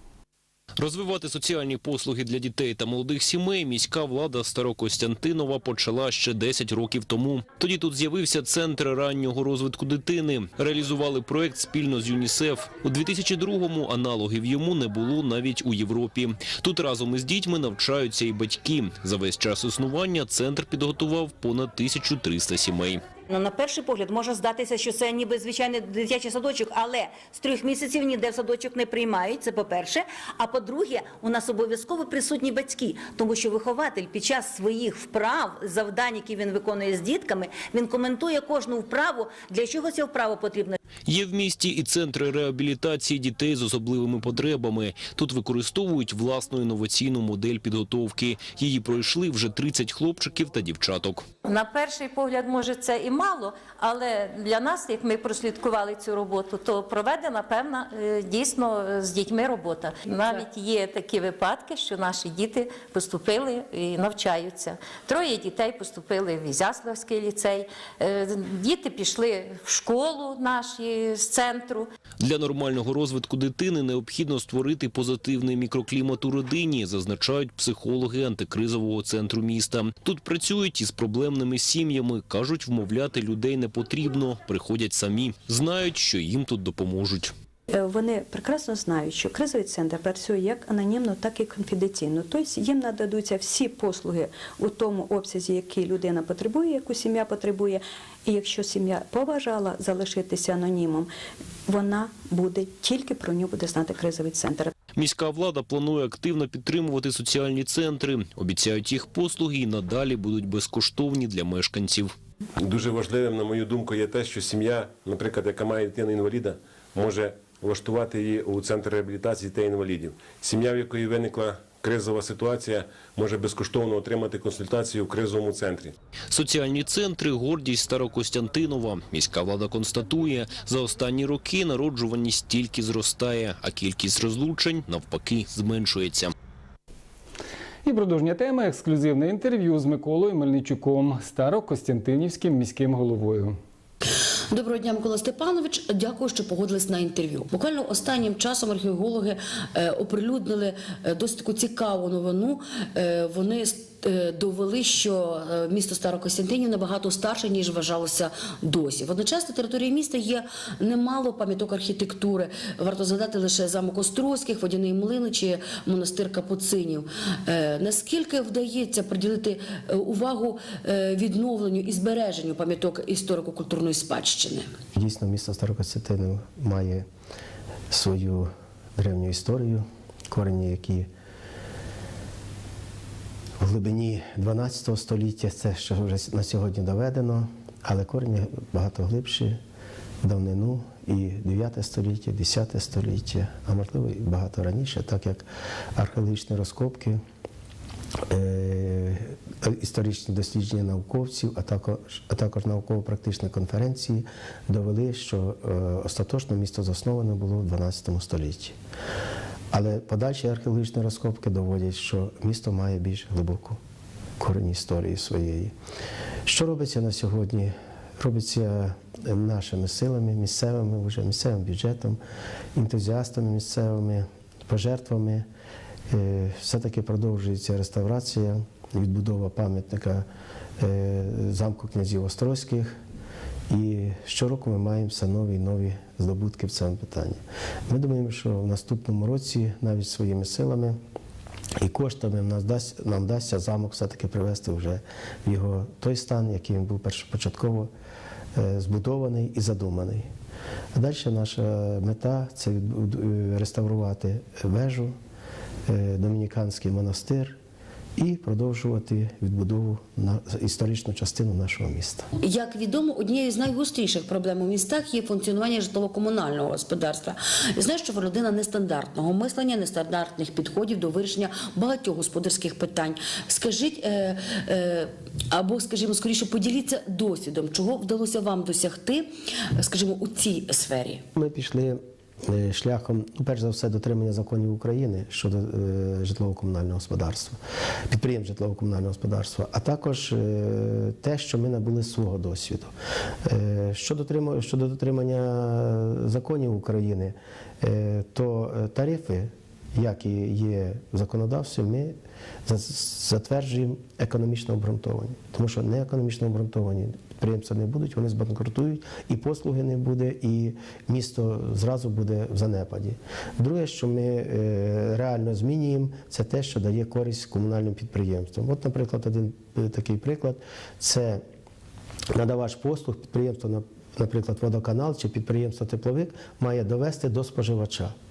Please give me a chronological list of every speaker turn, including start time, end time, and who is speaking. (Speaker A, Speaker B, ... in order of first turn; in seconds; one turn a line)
Speaker A: 0.8-23.0
Speaker B: 23.3-40.8
Speaker A: 41.0-51.2
Speaker C: 51.4-71.9
Speaker A: 72.2-87.3
Speaker D: 87.7-101.1
Speaker D: 101.7-104.7
Speaker A: 105.0-112.1
Speaker E: 112.6-125.9
Speaker A: 126.3-136.3
Speaker F: 137.8-143.6
Speaker G: 144.5-174.7
Speaker H: 174.9-177.1
Speaker H: 177.9-181.1
Speaker H: 183.6-189.6
Speaker H: 190.2-197.2
Speaker H: 198.3-208.7
Speaker H: 209.7-213.8
Speaker H: 214.4-215.7
Speaker H: 216.4-222.2
Speaker H: 222.7-225.4
Speaker H: 226.1-230.2
Speaker H: 230.8-232.9
Speaker H: 233.7-241.0
Speaker H: 241.8-247.9
Speaker H: 248.5-250.2
Speaker H: 250.9-255.1
Speaker H: 255.9-257.6
Speaker H: 258.2-262.3
Speaker G: 262.4-281.2
Speaker H: 281.3-287.6
Speaker H: 288.1-292.9
Speaker H: 293.4-302.1
Speaker H: 302.6-321.4
Speaker H: 322.3-328.1